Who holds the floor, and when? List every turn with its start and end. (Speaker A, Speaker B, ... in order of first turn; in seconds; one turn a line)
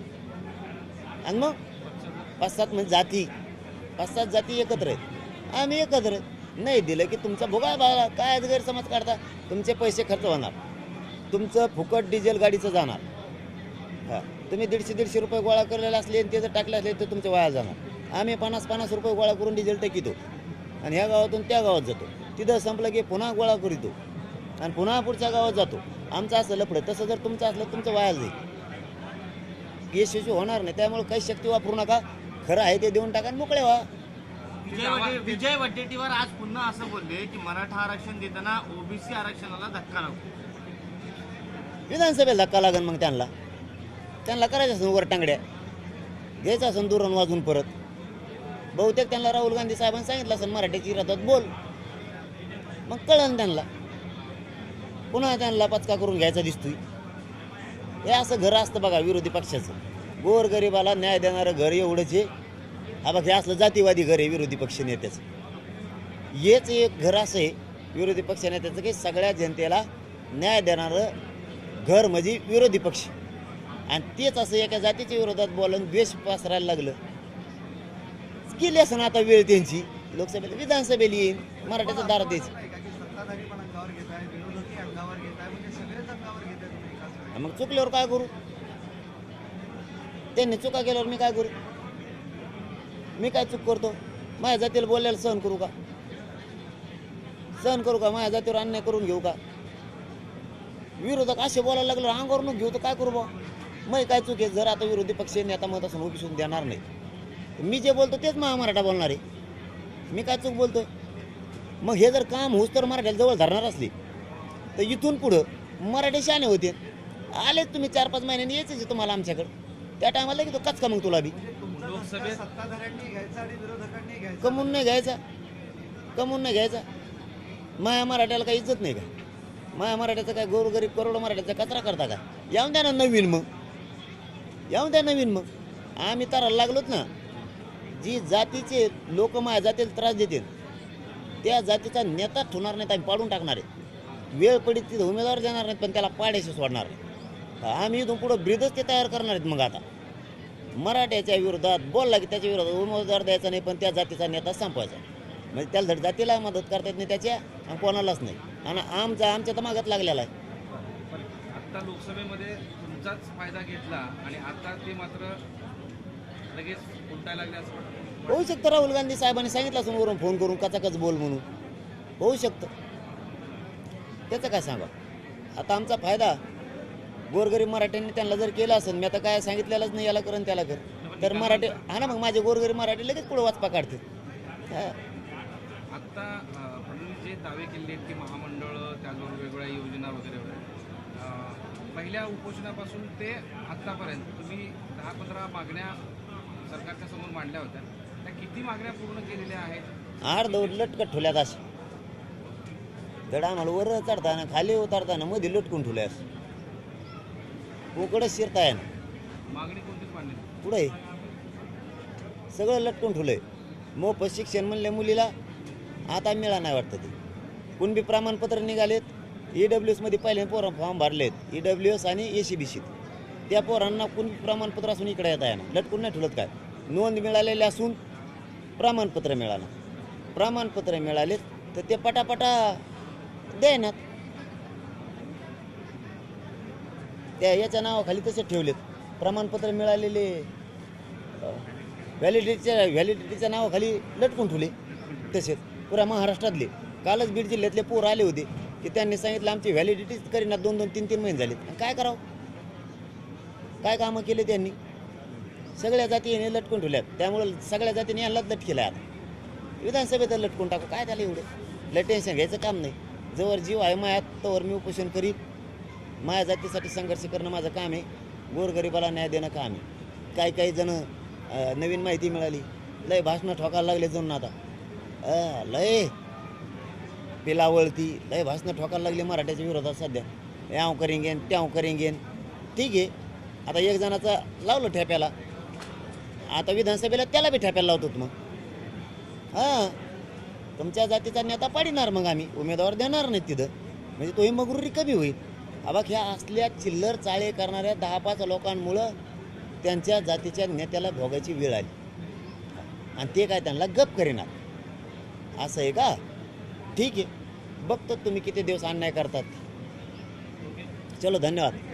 Speaker A: 1.2-1.6
Speaker B: 1.8-2.3
Speaker A: 2.4-3.3
Speaker A: 4.0-10.6
Speaker A: 11.3-13.0
Speaker A: 14.1-20.2
Speaker A: 20.8-23.9
Speaker A: 24.6-28.3
Speaker A: 29.9-33.9
Speaker C: 34.6-40.2
Speaker B: 34.6-35.5
Speaker A: 41.9-43.3
Speaker A: 44.2-45.4
Speaker A: 46.4-47.7
Speaker A: 48.7-51.5
Speaker A: 52.9-53.7
Speaker A: 55.1-56.8
Speaker A: 58.0-62.3
Speaker A: 63.0-65.2
Speaker A: 66.3-71.1
Speaker A: 71.8-73.1
Speaker A: 73.9-77.0
Speaker A: 78.5-82.5
Speaker D: 81.8-87.3
Speaker A: 87.3-88.3
Speaker A: 90.3-91.5
Speaker A: 93.2-95.7
Speaker A: 97.6-99.4
Speaker A: 101.0-103.3
Speaker A: 103.9-106.8
Speaker A: 107.6-109.2
Speaker A: 110.1-110.9
Speaker A: 111.8-113.9
Speaker A: 114.8-116.8
Speaker A: 117.3-121.3
Speaker D: 121.4-124.6
Speaker B: 121.7-122.4
Speaker A: 124.4-125.2
Speaker A: 126.2-126.8
Speaker A: 127.8-129.1
Speaker A: 129.7-133.5
Speaker A: 134.7-135.4
Speaker A: 136.0-137.1
Speaker A: 137.9-140.5
Speaker A: 141.4-143.7
Speaker A: 144.3-147.0
Speaker A: 147.6-149.8
Speaker A: 150.8-155.0
Speaker A: 155.5-160.3
Speaker B: 160.7-165.4
Speaker B: 166.5-168.6
Speaker A: 168.3-171.4
Speaker A: 172.2-172.7
Speaker A: 174.3-174.9
Speaker A: 175.6-176.4
Speaker A: 177.3-184.0
Speaker B: 181.0-182.1
Speaker B: 185.9-190.6
Speaker B: 191.1-196.0
Speaker B: 196.7-199.8
Speaker A: 200.2-201.6
Speaker A: 203.3-206.2
Speaker A: 207.9-208.9
Speaker B: 209.5-210.5
Speaker A: 210.6-210.9
Speaker A: 212.5-213.4
Speaker A: 214.0-215.3
Speaker A: 216.1-217.1
Speaker A: 217.8-222.9
Speaker A: 223.5-228.0
Speaker A: 228.8-229.7
Speaker A: 230.3-232.8
Speaker A: 233.5-234.0
Speaker A: 237.4-240.5
Speaker A: 242.2-244.7
Speaker A: 245.3-252.2
Speaker A: 253.8-254.7
Speaker A: 255.8-259.0
Speaker A: 259.8-265.4
Speaker A: 266.2-269.8
Speaker A: 270.4-274.5
Speaker A: 275.2-276.1
Speaker A: 277.4-282.2
Speaker A: 282.8-283.1
Speaker A: 283.7-285.3
Speaker A: 286.5-288.3
Speaker A: 289.5-289.9
Speaker A: 290.8-299.1
Speaker A: 299.8-301.9
Speaker A: 302.8-304.5
Speaker A: 305.6-306.2
Speaker A: 306.9-307.3
Speaker A: 307.8-309.6
Speaker A: 311.2-311.8